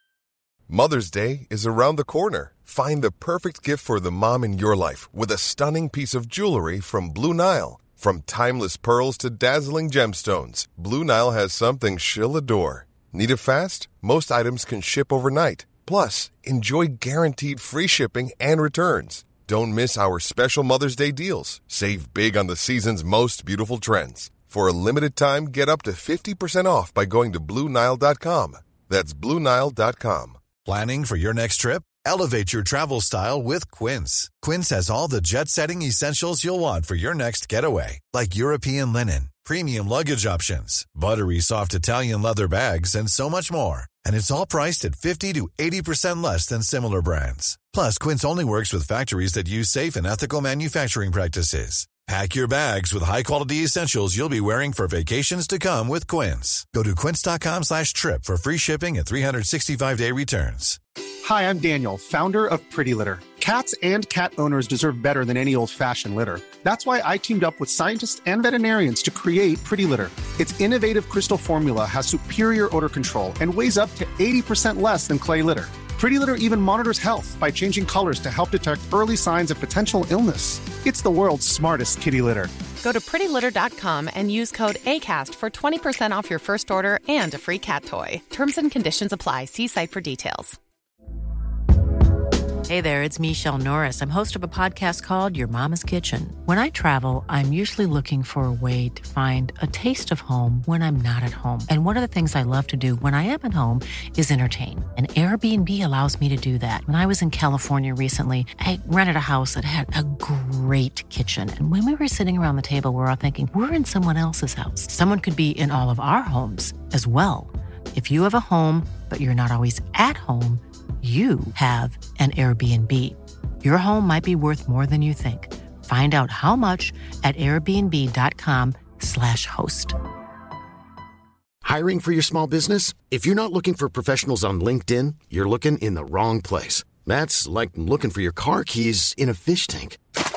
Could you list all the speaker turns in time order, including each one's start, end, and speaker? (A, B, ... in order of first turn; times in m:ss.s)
0:00.7-0:30.4 A
0:30.6-1:00.8 B
1:01.2-1:22.5 C
1:22.8-1:30.6 D
1:32.6-2:10.0 E
2:11.6-2:20.0 F